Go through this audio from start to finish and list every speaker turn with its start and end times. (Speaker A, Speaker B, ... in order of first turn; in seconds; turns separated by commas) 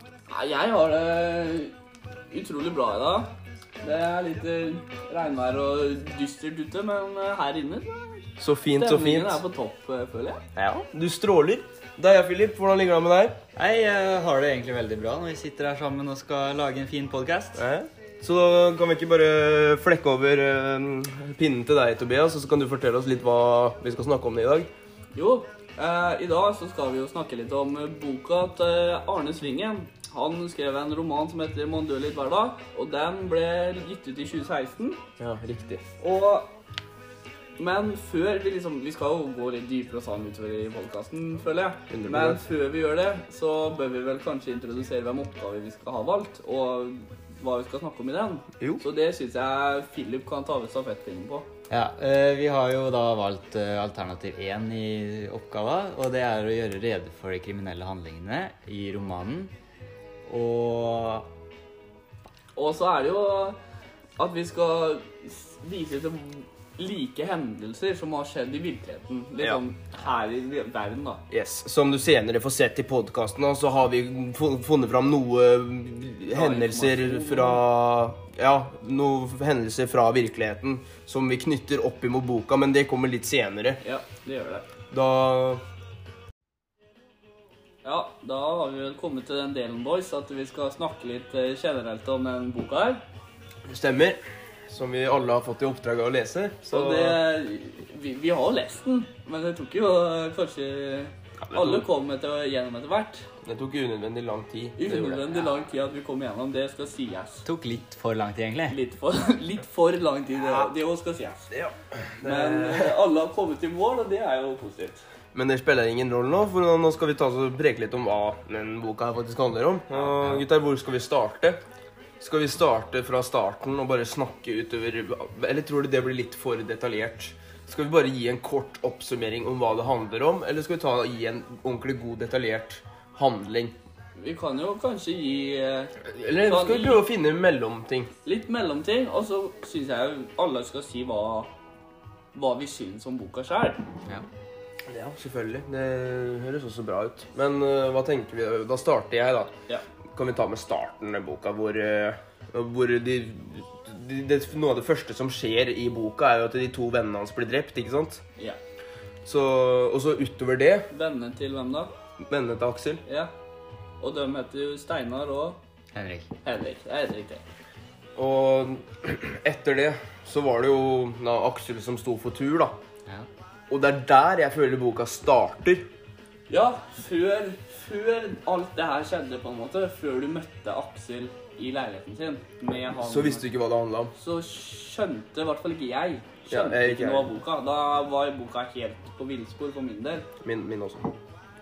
Speaker A: 0.3-1.7, Speaker A: 2.3-3.3, Speaker A: 3.8-10.4, Speaker B: 8.4-9.4, Speaker B: 10.6-13.4, Speaker C: 13.6-17.6, Speaker B: 17.6-24.7, Speaker A: 25.1-35.0, Speaker B: 35.2-35.8, Speaker A: 36.0-36.5, Speaker A: 37.6-51.5, Speaker B: 41.9-42.4, Speaker C: 51.7-59.5, Speaker C: 60.2-61.3, Speaker A: 62.5-63.6, Speaker A: 64.2-71.2, Speaker B: 71.3-83.8, Speaker A: 76.3-77.6, Speaker A: 83.8-84.7, Speaker B: 84.9-85.6, Speaker A: 87.8-93.0, Speaker B: 93.7-97.2, Speaker A: 96.7-103.3, Speaker B: 101.5-101.8, Speaker B: 103.4-105.2, Speaker A: 104.8-107.5, Speaker C: 107.4-108.8, Speaker A: 108.7-111.5, Speaker B: 111.5-112.9, Speaker A: 112.2-115.0, Speaker B: 115.3-121.6, Speaker B: 122.2-133.7, Speaker A: 134.1-137.0, Speaker B: 136.0-138.1, Speaker A: 138.2-141.5, Speaker A: 142.3-143.8, Speaker B: 144.9-149.5, Speaker B: 150.1-158.2, Speaker B: 159.2-160.9, Speaker A: 160.9-161.9, Speaker B: 162.2-163.0, Speaker A: 163.0-163.3, Speaker A: 164.0-165.6, Speaker C: 165.9-166.3, Speaker A: 166.4-167.4, Speaker B: 168.2-172.8, Speaker B: 173.7-175.8, Speaker A: 176.5-183.4, Speaker B: 182.9-184.1, Speaker A: 184.1-190.3, Speaker B: 186.5-187.3, Speaker B: 190.4-191.1